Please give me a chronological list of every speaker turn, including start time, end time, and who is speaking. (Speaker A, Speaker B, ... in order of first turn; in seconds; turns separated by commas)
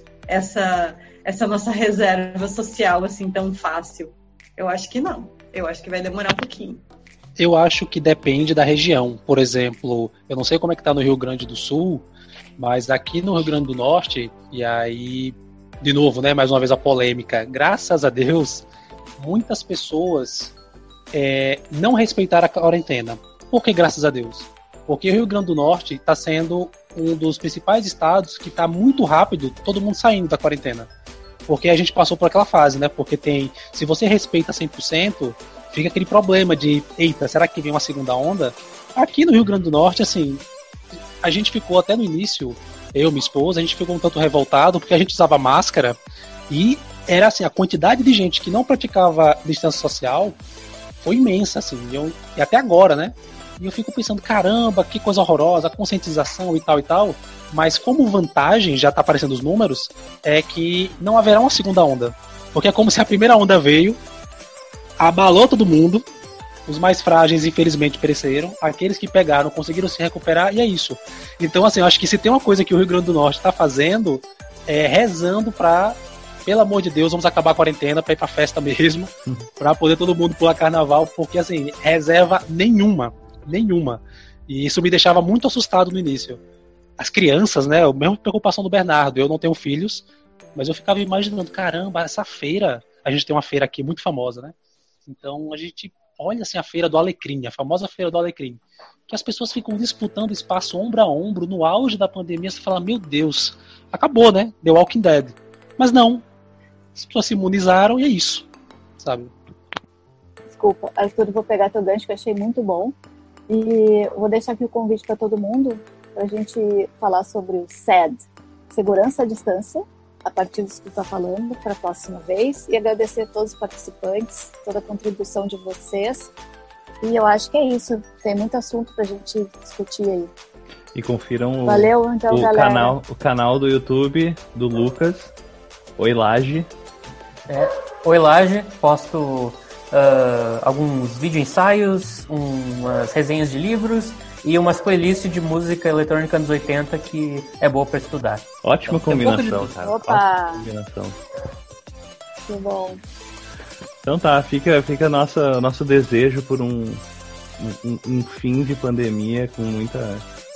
Speaker A: 0.3-6.8, Speaker B: 7.4-12.1, Speaker B: 12.6-18.7, Speaker B: 19.2-20.5, Speaker B: 21.1-30.9, Speaker B: 31.5-40.4, Speaker B: 41.2-50.4, Speaker B: 51.0-64.0, Speaker B: 65.0-66.0, Speaker B: 66.7-86.4, Speaker B: 87.0-94.5, Speaker B: 95.1-106.2, Speaker B: 106.9-108.5, Speaker B: 109.0-109.3, Speaker C: 110.5-112.9, Speaker C: 113.5-126.3, Speaker C: 127.0-130.3, Speaker D: 130.9-135.3, Speaker C: 131.6-132.9, Speaker D: 136.0-136.7, Speaker E: 137.5-149.7, Speaker D: 148.6-151.2, Speaker C: 149.8-150.7, Speaker C: 152.4-153.0, Speaker D: 154.0-157.0, Speaker D: 157.6-160.2